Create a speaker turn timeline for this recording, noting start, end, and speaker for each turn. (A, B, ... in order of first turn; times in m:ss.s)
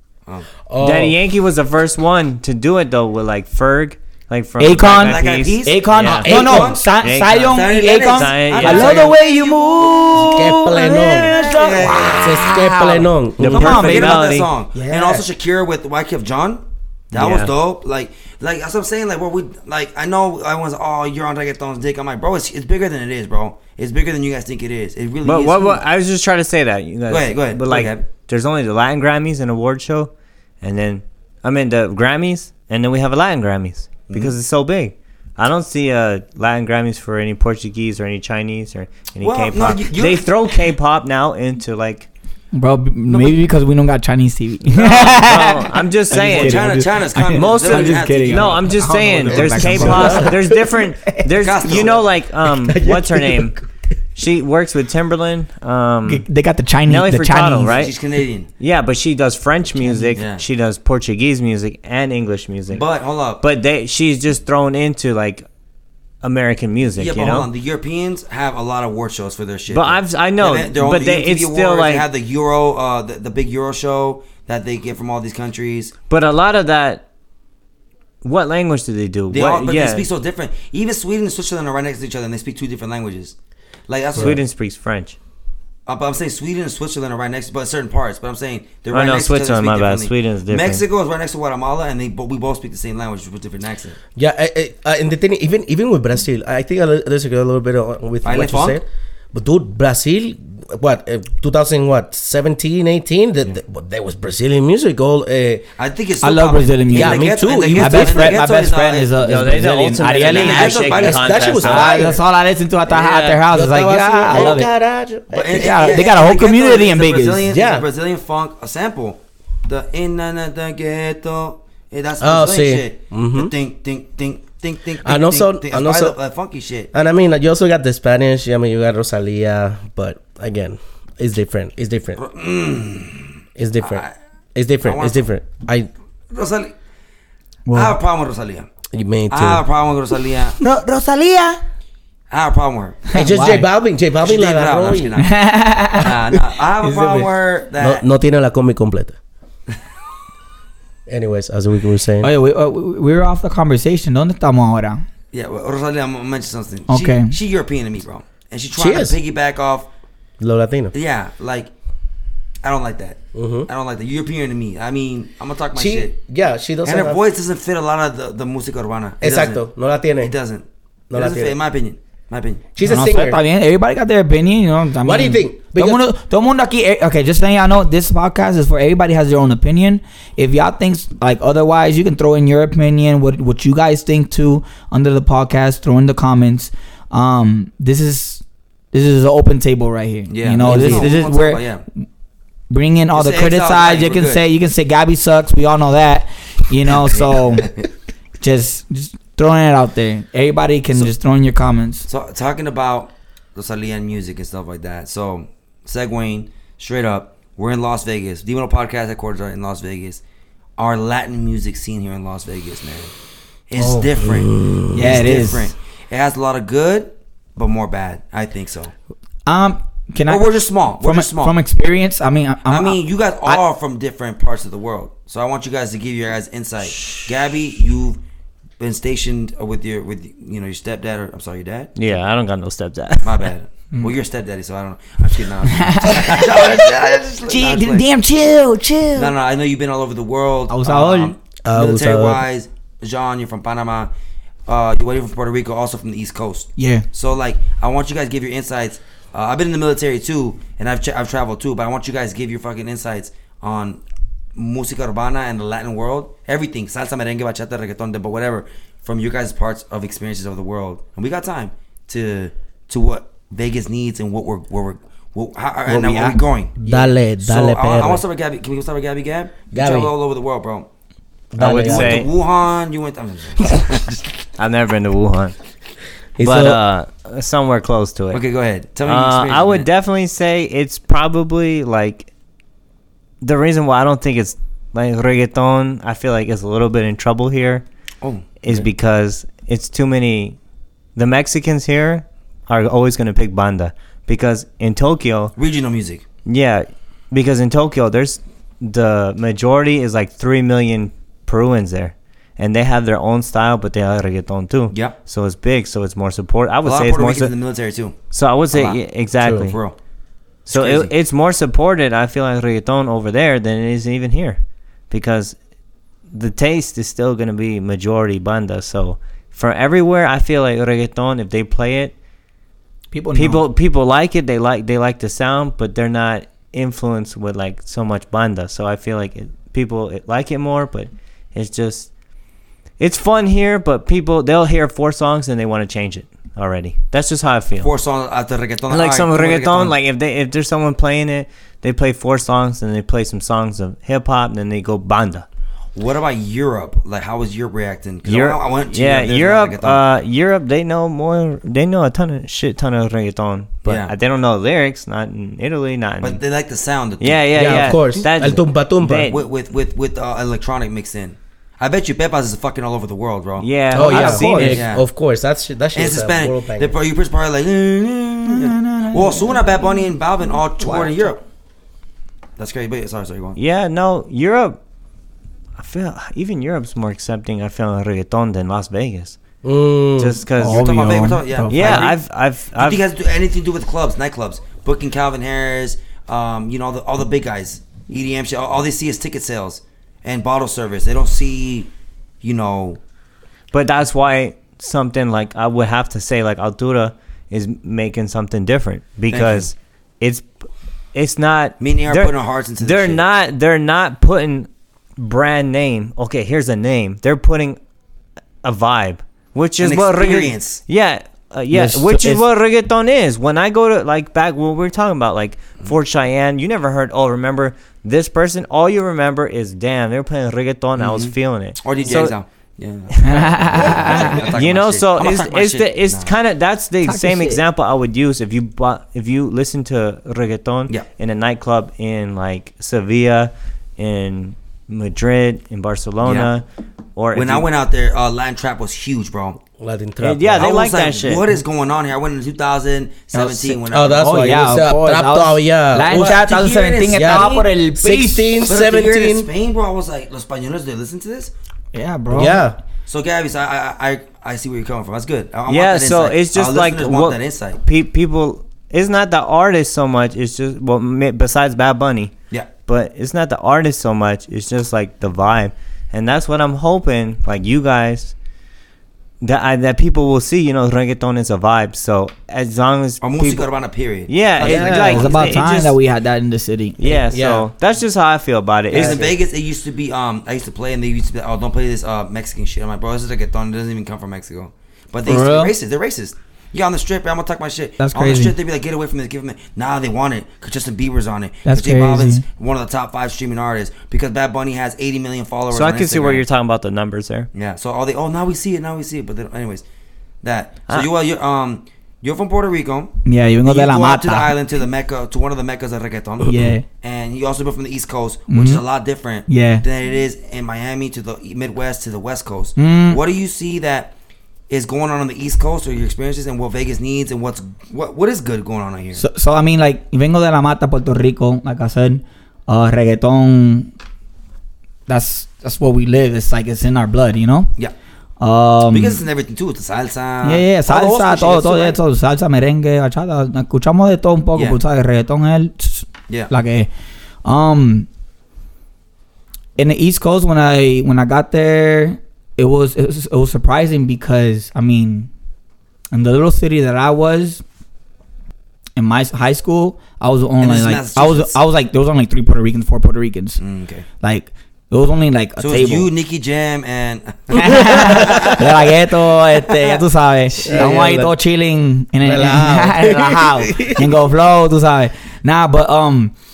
0:00.7-0:01.2 A
0:00.8-0:09.1 B
0:04.6-0:14.2 C
0:05.0-0:06.9 D
0:06.2-0:06.8 A
0:07.5-0:10.3 D
0:10.3-0:11.3 A
0:11.0-0:12.3 D
0:12.1-0:13.7 A
0:13.4-0:14.5 B
0:13.6-0:25.8 D
0:14.7-0:15.2 C
0:17.1-0:17.5 B
0:25.2-0:30.1 B
0:27.1-0:28.0 D
0:30.6-0:42.1 B
0:34.1-0:34.3 D
0:39.2-0:40.3 D
0:42.5-0:51.3 C
0:44.8-0:53.6 B
0:44.8-0:45.1 D
0:46.1-0:50.1 D
0:49.6-0:50.6 A
0:51.4-0:52.1 D
0:52.6-0:53.5 A
0:54.2-0:56.2 B
0:56.0-0:57.8 C
0:56.9-0:58.0 B
0:57.7-0:58.5 D
0:58.6-1:02.9 B
0:59.8-1:00.2 C
1:00.2-1:00.4 D
1:02.7-1:03.4 D
1:03.4-1:05.5 B
1:06.2-1:07.5 B
1:07.0-1:15.9 D
1:09.7-1:12.1 B
1:16.1-1:17.0 B
1:18.2-1:20.1 B
1:19.3-1:23.4 D
1:23.9-1:24.4 D
1:24.2-1:25.2 B
1:25.9-1:34.0 D
1:28.9-1:30.8 B
1:34.2-1:45.6 A
1:38.2-1:38.8 D
1:45.8-1:49.1 D
1:46.2-1:50.9 C
1:46.9-1:48.4 A
1:49.2-1:52.0 B
1:50.2-1:51.9 D
1:50.9-1:52.2 A
1:51.6-1:54.7 C
1:52.9-1:53.4 B
1:53.5-1:56.1 A
1:55.3-2:06.9 D
1:55.5-1:57.5 C
1:57.5-1:57.9 A
2:02.2-2:03.5 A
2:05.0-2:06.2 A
2:06.9-2:12.2 A
2:12.2-2:14.1 D
2:13.6-2:15.9 A
2:14.8-2:15.3 D
2:16.3-2:16.7 D
2:17.7-2:18.0 C
2:17.7-2:18.7 D
2:18.9-2:19.7 A
2:19.3-2:20.6 D
2:20.6-2:21.6 C
2:22.3-2:23.0 D
2:23.1-2:23.7 C
2:23.1-2:25.2 A
2:24.2-2:25.4 D
2:25.2-2:26.2 C
2:26.0-2:28.0 D
2:26.8-2:27.3 C
2:27.8-2:29.2 A
2:31.1-2:32.3 A
2:32.2-2:35.0 C
2:35.3-2:39.9 D
2:36.9-2:37.4 C
2:38.8-2:39.2 A
2:40.4-2:40.9 A
2:40.9-2:41.7 D
2:42.6-2:46.1 D
2:43.3-2:43.7 A
2:45.7-2:47.2 A
2:46.8-2:49.6 D
2:49.2-2:50.3 A
2:50.2-2:52.7 D
2:51.1-2:51.6 A
2:52.8-2:53.4 A
2:52.8-3:12.1 C
2:55.0-2:56.0 A
3:10.3-3:11.8 D
3:10.6-3:11.1 A
3:12.7-3:17.7 C
3:13.1-3:14.4 D
3:16.9-3:17.9 D
3:18.4-3:22.1 C
3:22.1-3:30.2 D
3:30.8-3:33.1 D
3:33.7-3:38.9 D
3:33.8-3:34.1 C
3:34.2-3:35.3 A
3:34.9-3:35.7 C
3:39.5-3:43.6 C
3:40.3-3:41.6 D
3:42.7-3:48.2 D
3:48.8-3:51.9 D
3:52.0-3:53.5 B
3:53.2-3:58.0 D
3:55.7-3:59.3 C
3:59.2-4:04.1 D
4:00.7-4:01.3 C
4:01.6-4:02.4 A
4:04.7-4:14.0 D
4:06.8-4:07.1 C
4:14.6-4:26.7 D
4:25.9-4:27.1 C
4:26.9-4:28.2 A
4:27.4-4:30.9 D
4:29.7-4:30.1 A
4:31.5-4:32.3 A
4:31.6-4:32.3 B
4:31.8-4:34.2 D
4:34.6-4:35.6 B
4:36.4-4:36.8 A
4:36.4-4:38.4 B
4:38.3-4:39.9 D
4:39.0-4:42.3 B
4:43.4-4:47.8 B
4:48.2-4:48.9 D
4:48.6-4:50.6 B
4:51.2-4:55.6 B
4:55.6-4:56.2 D
4:56.5-5:07.5 B
5:06.8-5:08.2 D
5:08.3-5:09.8 B
5:08.7-5:09.0 D
5:09.4-5:09.7 A
5:09.6-5:10.0 D
5:10.7-5:11.1 D
5:10.7-5:15.6 B
5:16.3-5:22.1 B
5:23.1-5:23.6 C
5:23.4-5:32.1 B
5:33.0-5:37.9 B
5:37.8-5:40.0 D
5:38.9-5:45.5 B
5:46.0-5:50.0 D
5:48.2-5:56.4 B
5:53.8-5:54.1 D
5:56.2-5:57.4 D
5:57.2-5:59.4 B
5:57.5-5:59.3 A
5:59.3-6:03.7 D
6:03.6-6:04.9 B
6:03.9-6:07.0 A
6:04.0-6:04.8 C
6:04.7-6:05.0 D
6:06.0-6:11.4 D
6:08.5-6:10.1 C
6:10.8-6:11.4 C
6:12.6-6:13.6 D
6:13.6-6:14.8 B
6:15.8-6:19.4 B
6:19.6-6:20.4 A
6:20.2-6:21.0 B
6:20.6-6:22.1 C
6:20.6-6:22.2 D
6:21.7-6:23.0 B
6:22.8-6:31.9 D
6:32.4-6:33.0 D
6:33.7-6:40.5 B
6:39.3-6:39.7 D
6:41.1-6:47.8 B
6:41.8-6:43.2 D
6:48.6-7:02.4 B
6:49.8-6:50.8 D
6:51.7-6:52.4 C
7:01.0-7:06.3 D
7:03.2-7:04.4 C
7:03.8-7:16.6 B
7:07.0-7:07.6 C
7:16.2-7:16.5 D
7:17.2-7:17.7 B
7:17.3-7:19.6 D
7:19.8-7:20.7 A
7:20.2-7:21.4 B
7:20.6-7:24.3 D
7:23.3-7:28.6 C
7:23.9-7:26.4 A
7:26.1-7:27.7 D
7:27.1-7:29.5 A
7:28.7-7:31.5 D
7:31.9-7:32.7 C
7:32.3-7:32.8 A
7:33.1-7:37.8 D
7:35.7-7:42.3 B
7:42.9-7:48.3 B
7:49.4-7:53.7 B
7:53.2-7:55.7 D
7:54.3-7:55.9 B
7:54.6-7:57.2 C
7:54.7-7:55.1 A
7:57.0-7:59.3 B
7:57.3-7:57.7 A
7:58.9-8:16.4 D
7:59.0-7:59.3 A
8:05.2-8:05.7 C
8:08.0-8:08.6 C
8:11.6-8:12.4 C
8:15.7-8:17.5 B
8:17.5-8:19.8 D
8:20.4-8:23.1 D
8:23.2-8:24.6 C
8:23.6-8:34.1 D
8:26.5-8:26.8 C
8:28.5-8:28.8 C
8:29.5-8:29.8 C
8:32.8-8:33.2 C
8:34.7-8:39.2 D
8:39.2-8:43.9 C
8:45.1-8:47.7 C
8:48.4-8:49.2 C
8:48.9-8:52.0 D
8:50.4-8:56.9 C
8:57.4-8:58.1 C
8:59.8-9:05.3 C
9:06.1-9:07.6 C
9:09.0-9:13.6 C
9:10.6-9:11.6 D
9:13.6-9:14.0 D
9:14.2-9:16.1 C
9:15.6-9:18.7 D
9:17.5-9:26.3 C
9:18.2-9:18.6 A
9:19.7-9:20.0 D
9:20.6-9:21.4 A
9:22.2-9:24.1 A